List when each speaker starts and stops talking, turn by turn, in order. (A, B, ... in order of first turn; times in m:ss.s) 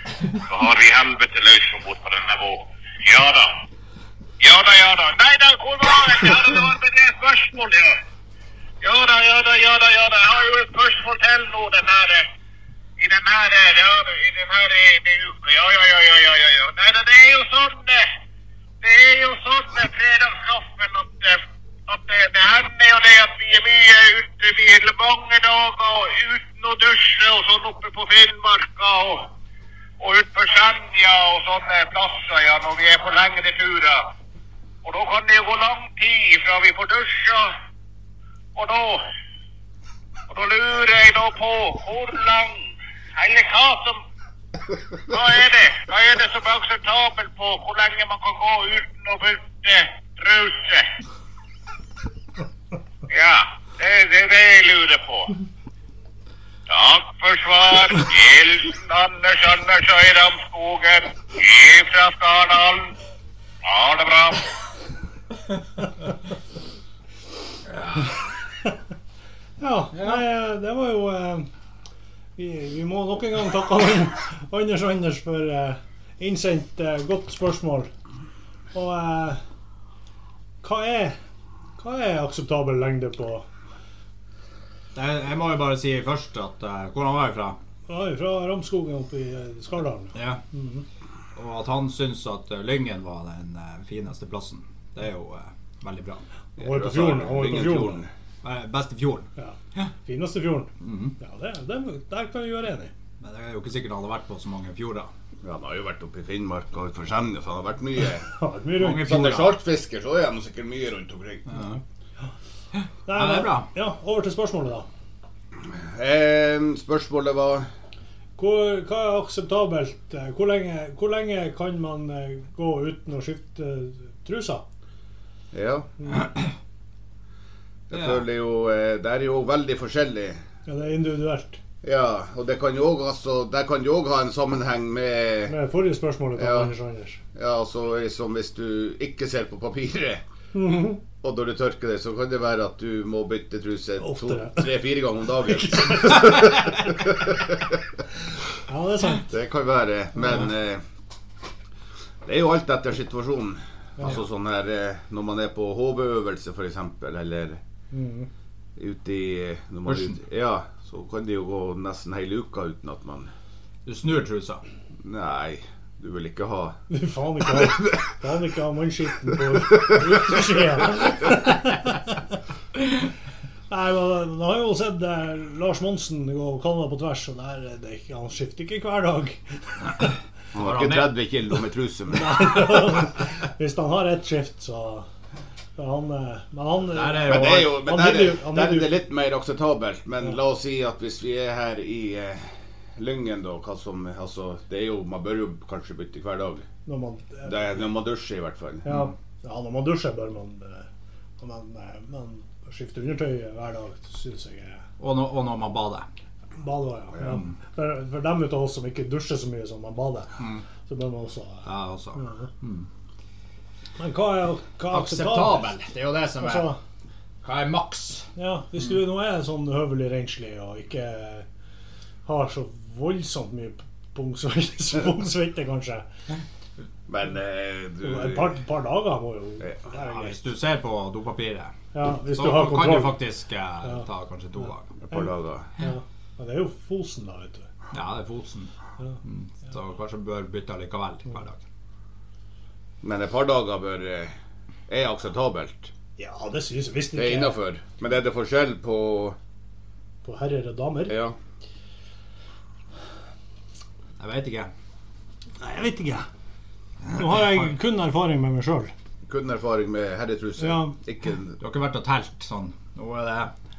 0:00.3-0:03.5 A
0:04.4-0:08.0 A
0:08.8-0:12.3 A
0:13.0-0:18.1 A
0:18.8-0:29.3 A
0:30.0-0:34.0 A
0:34.8-0:37.5 A
0:38.6-0:39.0 A
0:40.3-0:42.6 A
0:43.2-0:44.0 A
0:45.1-0:50.9 A
0:53.1-0:55.3 A
0:56.7-1:02.9 A
1:03.6-1:04.5 A
1:07.8-1:08.1 B
1:09.6-1:11.5 C
1:12.4-1:17.9 C
1:18.7-1:19.4 C
1:20.6-1:21.2 C
1:21.8-1:23.5 C
1:24.9-1:27.6 B
1:27.9-1:30.8 C
1:30.1-1:30.4 B
1:31.4-1:36.2 B
1:36.6-1:38.1 D
1:36.6-1:38.0 C
1:38.4-1:39.9 B
1:39.4-1:42.9 C
1:40.8-1:41.1 B
1:43.2-1:45.1 B
1:45.4-1:48.3 D
1:48.3-1:49.3 C
1:48.8-1:49.5 B
1:48.9-1:51.6 D
1:51.5-1:51.8 B
1:52.8-1:53.7 B
1:53.0-1:54.9 C
1:55.6-1:57.6 D
1:58.4-2:04.6 C
2:05.5-2:06.2 D
2:07.9-2:10.4 D
2:10.7-2:11.6 C
2:11.8-2:15.5 D
2:15.5-2:17.2 C
2:16.4-2:16.7 D
2:17.3-2:20.2 D
2:20.5-2:21.0 C
2:21.2-2:27.8 D
2:24.0-2:24.7 C
2:25.4-2:26.7 C
2:28.6-2:29.3 C
2:29.2-2:30.8 D
2:32.2-2:37.6 D
2:37.9-2:38.3 C
2:38.8-2:43.3 D
2:39.8-2:40.1 B
2:43.8-2:44.6 B
2:45.0-2:46.7 D
2:46.9-2:52.2 C
2:53.7-2:59.4 C
3:00.5-3:02.7 D
3:00.6-3:01.2 B
3:02.1-3:05.1 C
3:05.8-3:08.9 C
3:06.9-3:07.8 B
3:07.2-3:16.6 D
3:16.8-3:17.8 C
3:17.4-3:19.0 D
3:18.8-3:20.9 C
3:21.4-3:24.8 C
3:25.0-3:26.0 B
3:26.6-3:32.5 C
3:31.6-3:32.9 B
3:34.0-3:35.7 C
3:34.9-3:36.7 B
3:36.4-3:36.8 C
3:37.4-3:38.3 B
3:38.4-3:41.4 C
3:42.2-3:46.0 C
3:47.1-3:48.6 D
3:48.0-3:50.4 C
3:49.9-3:51.7 B
3:51.9-3:53.2 C
3:52.3-3:54.9 B
3:55.0-3:55.7 D
3:55.8-3:57.7 C
3:57.9-4:01.6 B
4:03.0-4:04.3 D
4:04.9-4:05.9 D
4:06.2-4:07.6 C
4:07.1-4:09.4 D
4:10.2-4:11.2 C
4:11.1-4:11.4 D
4:14.2-4:14.7 B
4:15.6-4:16.2 C
4:17.1-4:18.9 C
4:19.2-4:21.6 D
4:20.6-4:20.9 C
4:21.6-4:23.5 B